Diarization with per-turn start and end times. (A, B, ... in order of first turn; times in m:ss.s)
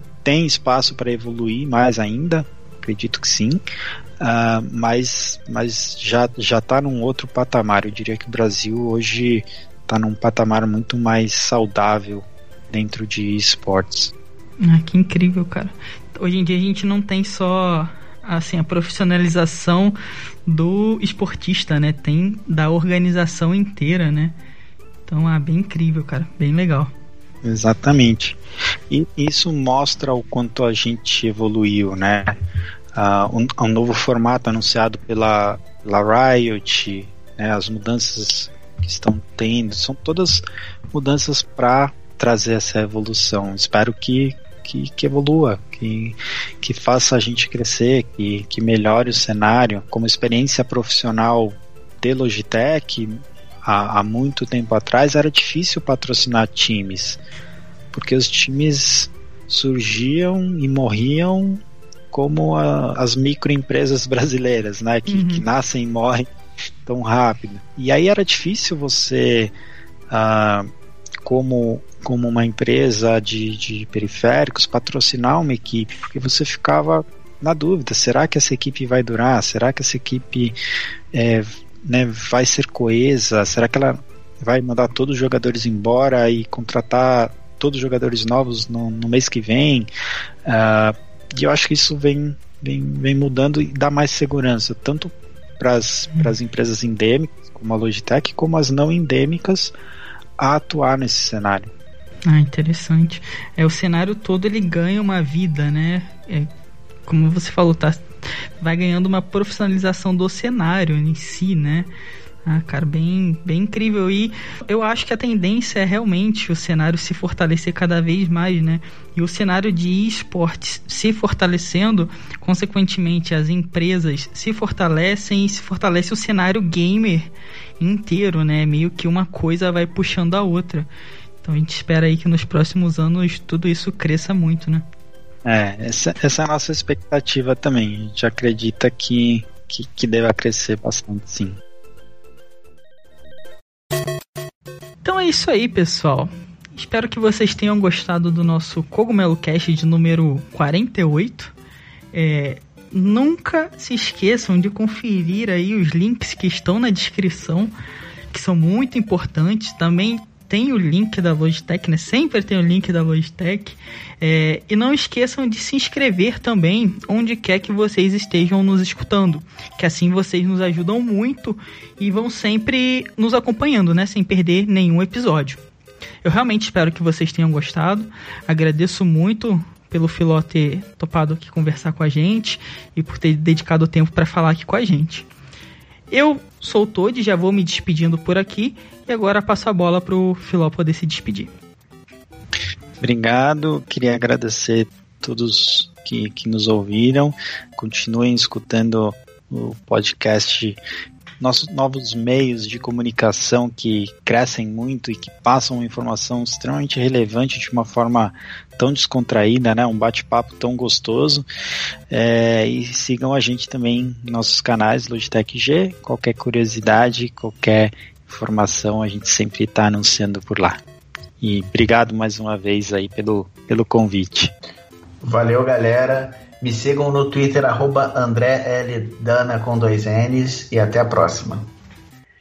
0:00.2-0:03.6 A
0:04.2-0:14.1 A
0:14.6-0:24.4 B
0:25.0-0:26.9 B
0:27.4-0:28.4 A
0:28.9-0:32.3 A
0:32.9-0:57.2 A
0:57.9-1:06.2 A
1:05.1-1:05.4 B
1:06.8-1:09.5 A
1:10.1-1:10.7 A
1:11.2-1:20.5 A
1:21.1-1:29.9 A
1:30.4-1:39.7 A
1:40.4-1:41.7 A
1:42.2-1:46.5 B
1:47.0-1:51.9 B
1:52.4-2:10.9 B
2:11.4-2:14.8 B
2:15.4-2:21.6 A
2:25.0-2:31.5 B
2:32.1-2:37.7 B
2:38.3-2:55.6 B
2:56.2-3:05.3 B
3:06.1-3:11.5 B
3:13.0-3:20.8 A
3:21.4-3:31.4 A
3:32.1-3:40.8 A
3:41.4-3:44.5 A
3:45.2-3:51.7 C